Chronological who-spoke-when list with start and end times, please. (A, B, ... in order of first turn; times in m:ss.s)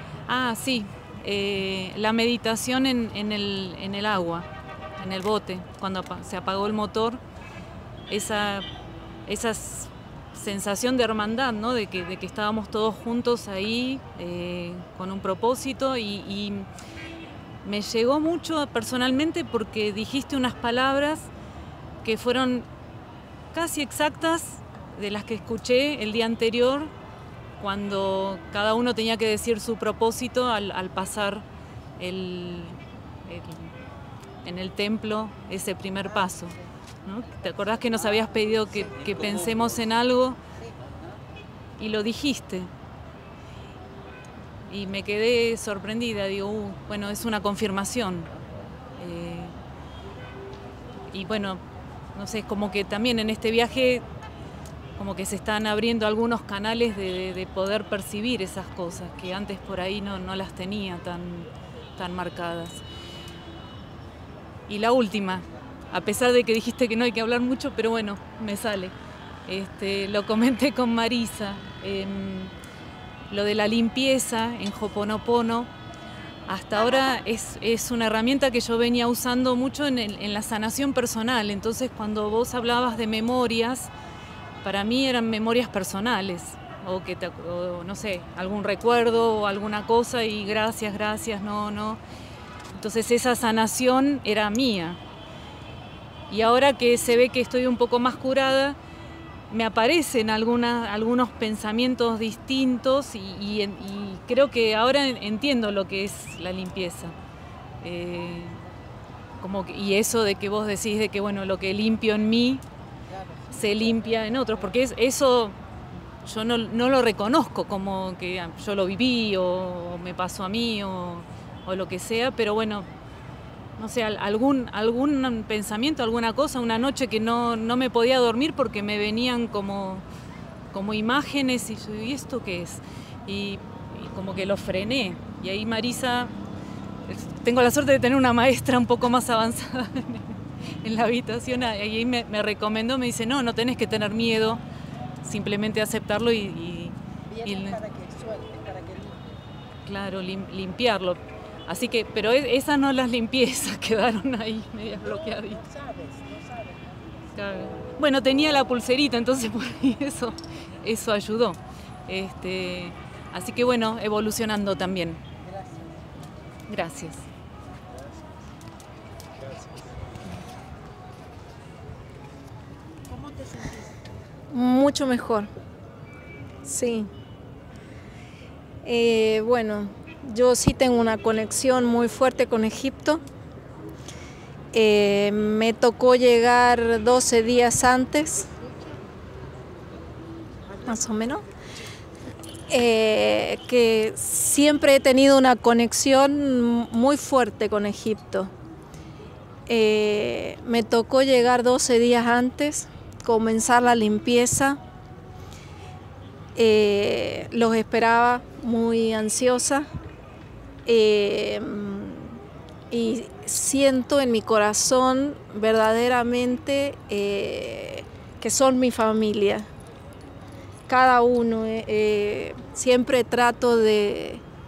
0:00.3-0:04.5 A
0:05.0-0:07.2 A
0:08.1-0:08.7 A
0:09.3-0:16.7 A
0:17.6-0:21.3 A
0:22.0-0:22.7 A
0:23.5-0:26.9 A
0:27.6-0:31.4 A
0:32.0-0:33.7 A
0:34.4-0:40.4 A
0:36.0-0:36.6 B
0:37.4-0:39.4 B
0:41.8-0:42.7 A
0:44.7-0:48.3 A
0:49.0-0:49.5 A
0:51.1-0:51.6 A
0:52.2-0:54.0 A
0:55.0-1:02.8 A
1:04.7-1:08.9 A
1:09.5-1:12.5 A
1:13.3-1:15.7 A
1:16.5-1:23.9 A
1:24.6-1:32.0 A
1:32.8-1:35.0 A
1:36.3-1:38.8 A
1:39.5-1:47.2 A
1:47.8-1:48.6 A
1:49.4-1:52.6 A
1:53.1-1:54.8 B
1:53.5-1:55.6 A
1:56.2-2:02.9 A
2:03.8-2:10.0 A
2:10.7-2:16.3 A
2:17.1-2:24.6 A
2:25.2-2:27.8 A
2:27.3-2:29.2 B
2:29.9-2:35.6 A
2:35.0-2:37.2 B
2:37.4-2:45.2 A
2:45.4-2:46.1 B
2:46.7-2:47.2 A
2:53.1-2:53.9 B
2:54.5-2:55.5 C
2:56.6-2:57.1 C
2:58.8-3:03.2 C
3:04.7-3:08.5 C
3:08.4-3:09.0 B
3:10.7-3:11.4 B
3:10.9-3:11.4 C
3:12.7-3:18.5 C
3:19.7-3:24.8 C
3:26.6-3:29.9 C
3:30.9-3:32.4 C
3:32.9-3:39.7 C
3:40.9-3:44.4 C